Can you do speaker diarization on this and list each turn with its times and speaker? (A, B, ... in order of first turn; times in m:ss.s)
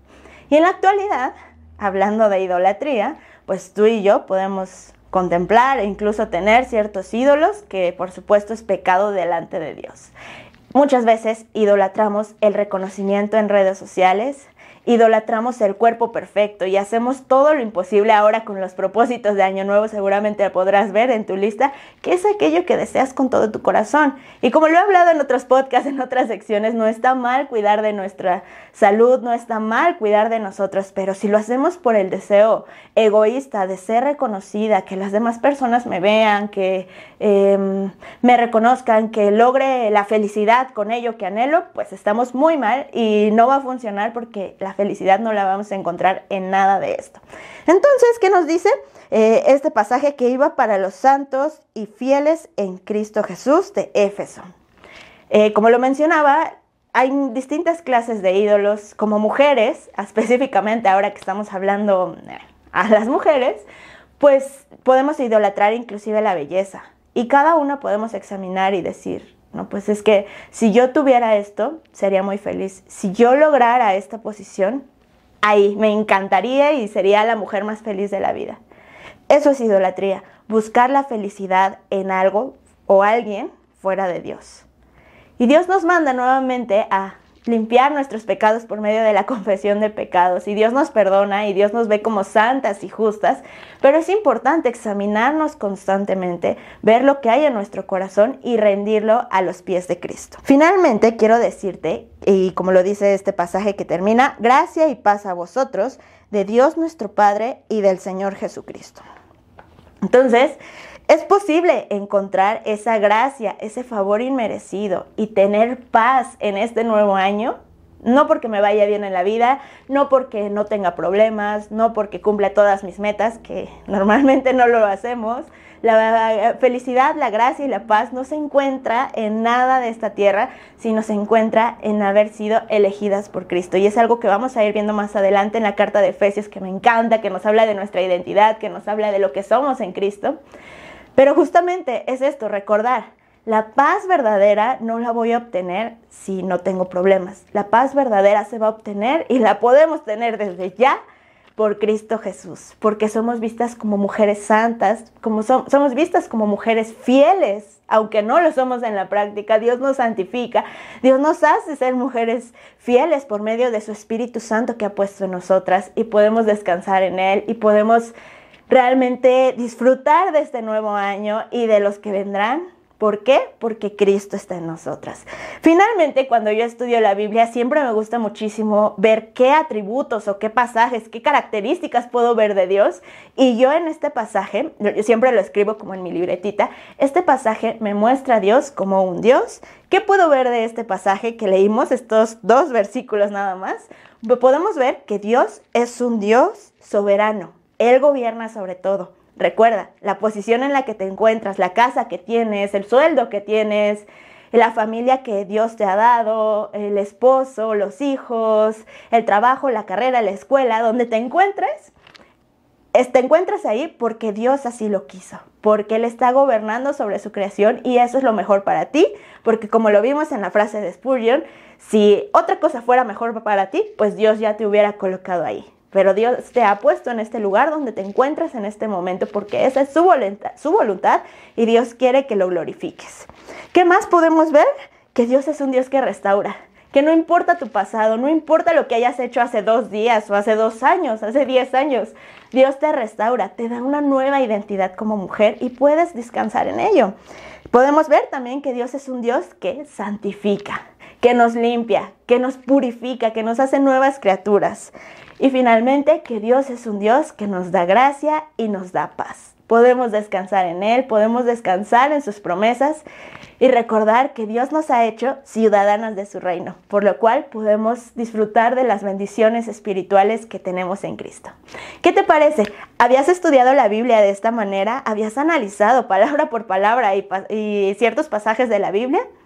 0:00.5-0:10.1 A
0:10.7-0:54.4 A
0:55.3-1:03.6 A
1:04.2-1:14.8 A
1:15.4-1:18.6 A
1:19.3-1:24.6 A
1:25.4-1:49.0 A
1:50.0-1:50.6 A
1:51.1-2:20.4 A
2:21.2-2:31.0 A
2:31.6-2:48.1 A
2:48.7-3:31.9 A
3:32.9-4:07.1 A
4:07.7-4:23.0 A
4:23.6-4:39.2 A